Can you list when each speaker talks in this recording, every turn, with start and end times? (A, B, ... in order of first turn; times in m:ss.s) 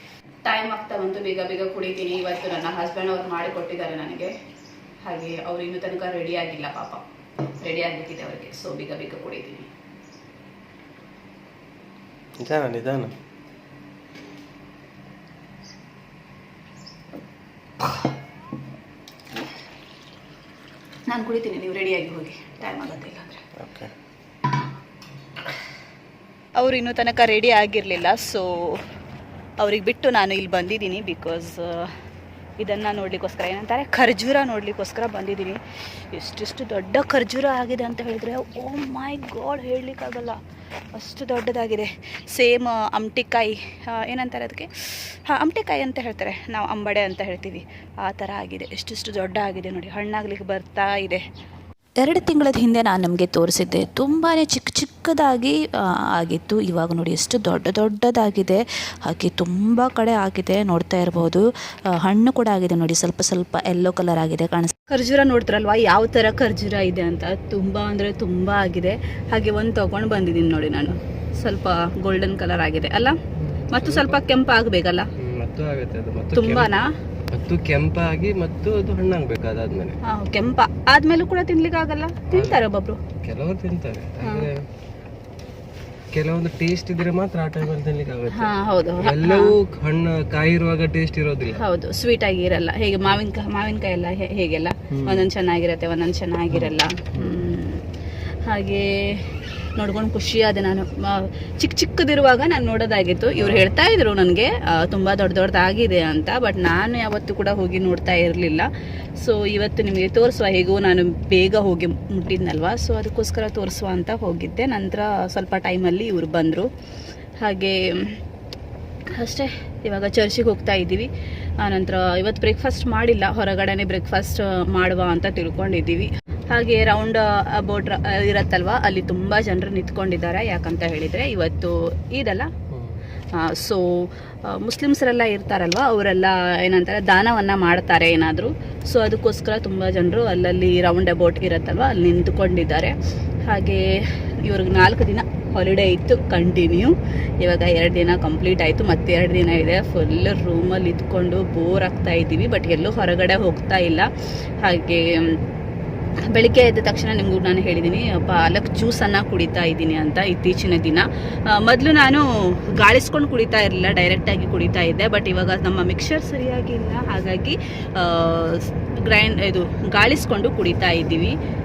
0:00.4-0:04.3 A
0:05.0-0:07.0 A
0:07.6-0:09.7 A
0:12.4-0:13.1 B
0:21.1-0:23.5 A
0:23.6-0:23.9 B
0:26.6-0:28.8 A
0:29.6-0:31.9 A
0:32.6-0:35.6 A
0:36.1-0:40.4 A
0:40.9-0:51.2 A
0:52.0-1:04.7 C
1:04.9-1:13.2 A
1:13.4-1:14.2 B
1:13.7-1:15.1 A
1:15.2-1:16.7 B
1:16.3-1:16.9 A
1:17.3-1:20.0 B
1:20.0-1:23.0 A
1:22.3-1:22.6 B
1:23.2-1:24.6 B
1:24.2-1:24.5 A
1:26.1-1:31.6 B
1:28.3-1:29.5 A
1:31.5-1:37.8 A
1:34.9-1:35.3 B
1:36.5-1:37.4 B
1:38.5-1:48.7 A
1:43.4-1:43.7 B
1:49.2-1:56.7 A
1:57.4-1:58.2 A
1:59.2-2:01.1 A
2:01.6-2:12.5 A
2:12.7-2:13.0 B
2:13.4-2:23.0 A
2:23.5-2:23.9 A
2:24.4-2:34.1 A
2:34.6-2:35.4 A
2:36.3-2:51.4 A